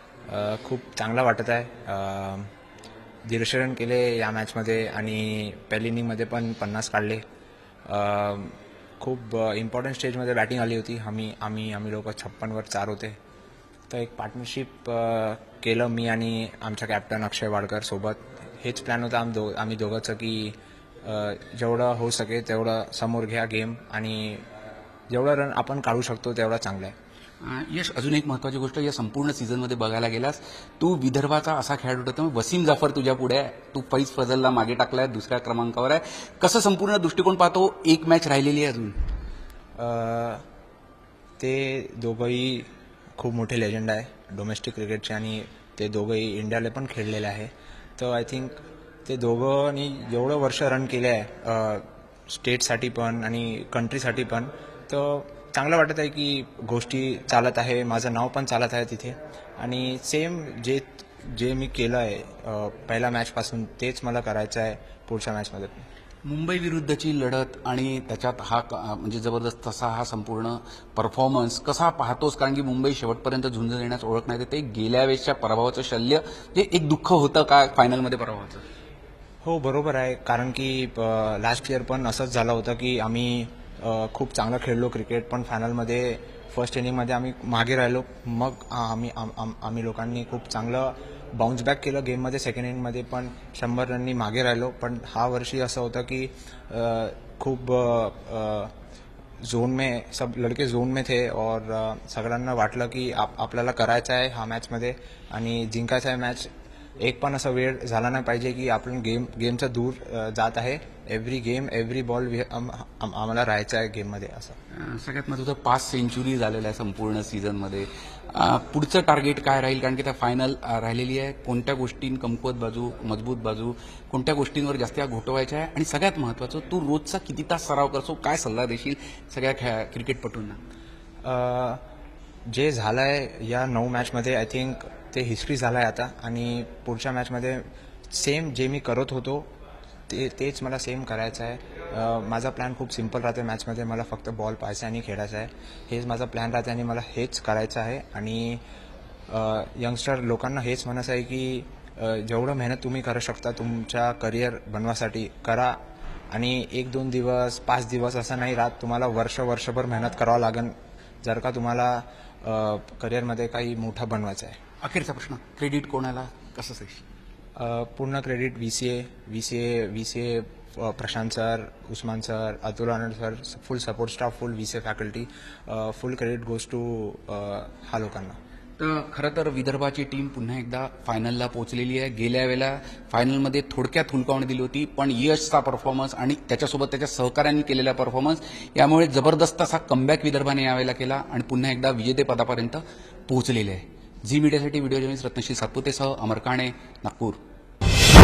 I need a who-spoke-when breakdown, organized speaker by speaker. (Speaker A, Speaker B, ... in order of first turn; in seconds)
Speaker A: 0.3-2.5, 3.3-7.2, 7.8-13.2, 13.9-24.4, 25.1-26.9, 39.8-40.4, 41.4-65.8, 79.4-98.7, 99.4-114.6, 131.2-131.8, 132.5-139.5, 140.1-148.6, 149.3-155.8, 156.3-164.6, 167.6-178.4
Speaker B: 27.4-39.0, 66.2-78.6, 114.7-130.6, 164.8-167.0, 178.8-197.4